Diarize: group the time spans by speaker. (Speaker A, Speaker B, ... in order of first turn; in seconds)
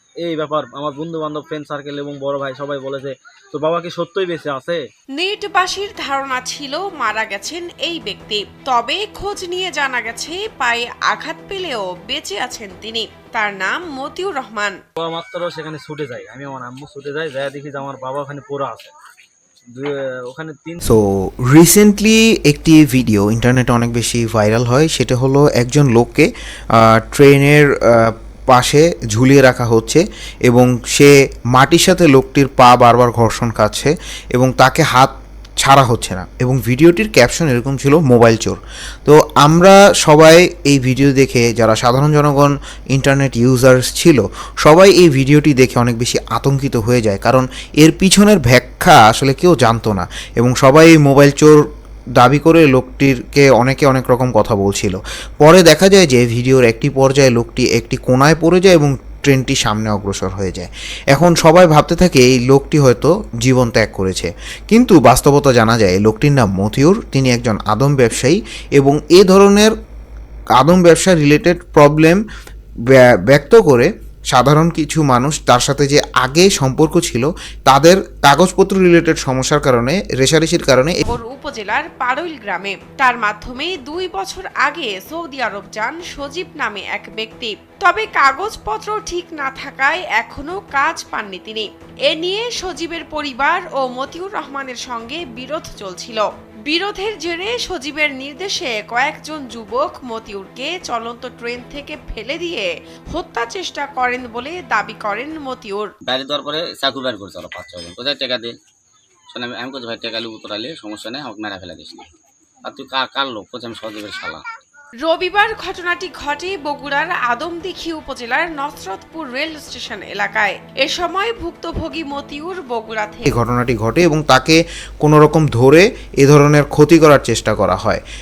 Speaker A: 0.2-4.8, 15.0-18.9, 19.7-20.8
Speaker B: 5.2-14.8, 81.0-105.9, 115.0-123.4
Speaker C: 20.9-51.6, 52.2-69.7, 70.6-72.2, 72.9-81.1, 123.2-128.0
Speaker D: 106.1-108.5, 109.3-112.1, 112.7-114.4